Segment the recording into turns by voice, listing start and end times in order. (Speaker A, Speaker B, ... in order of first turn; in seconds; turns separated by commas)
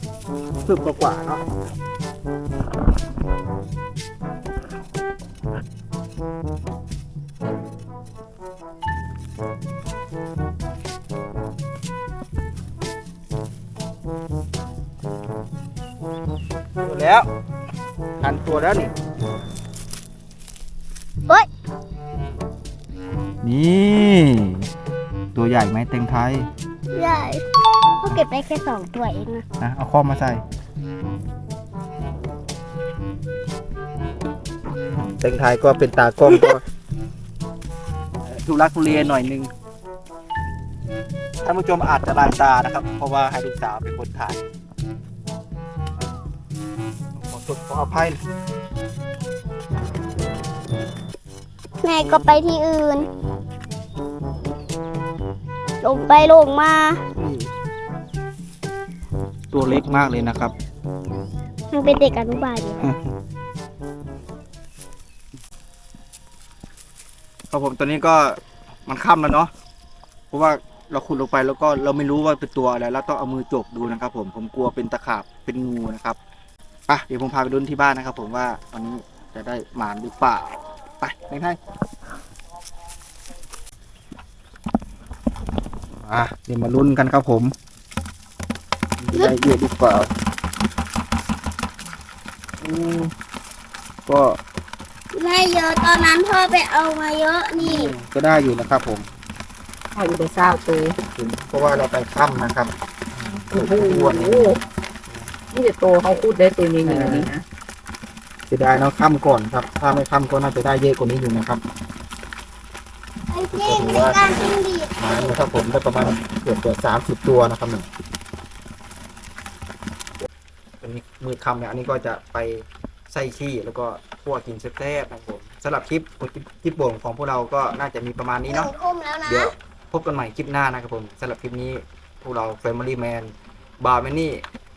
Speaker A: 0.6-1.5, Speaker A: 16.8-17.2, Speaker A: 18.2-18.9, Speaker A: 23.4-24.7, Speaker A: 25.4-26.5, Speaker B: 26.9-27.4, Speaker B: 28.0-29.4, Speaker A: 29.6-30.4, Speaker A: 34.9-36.6, Speaker A: 38.2-39.5, Speaker A: 41.4-44.5, Speaker A: 47.1-48.2, Speaker B: 51.8-53.1, Speaker B: 55.8-57.0, Speaker A: 57.1-57.5, Speaker A: 59.5-60.5, Speaker B: 61.7-62.9, Speaker A: 62.8-63.1, Speaker A: 67.5-69.5, Speaker A: 70.3-76.2, Speaker A: 76.9-81.6, Speaker A: 86.0-87.5, Speaker A: 89.0-90.1, Speaker C: 92.7-93.0, Speaker A: 94.1-94.4, Speaker B: 95.1-97.9, Speaker A: 97.6-99.1, Speaker C: 99.9-101.0, Speaker A: 101.1-104.5, Speaker C: 103.5-104.6, Speaker C: 105.5-107.4, Speaker A: 106.8-107.3, Speaker A: 108.5-111.6, Speaker B: 113.3-115.4, Speaker A: 113.5-114.2, Speaker A: 115.0-117.9, Speaker A: 120.8-128.7, Speaker B: 128.5-129.5, Speaker A: 129.3-134.4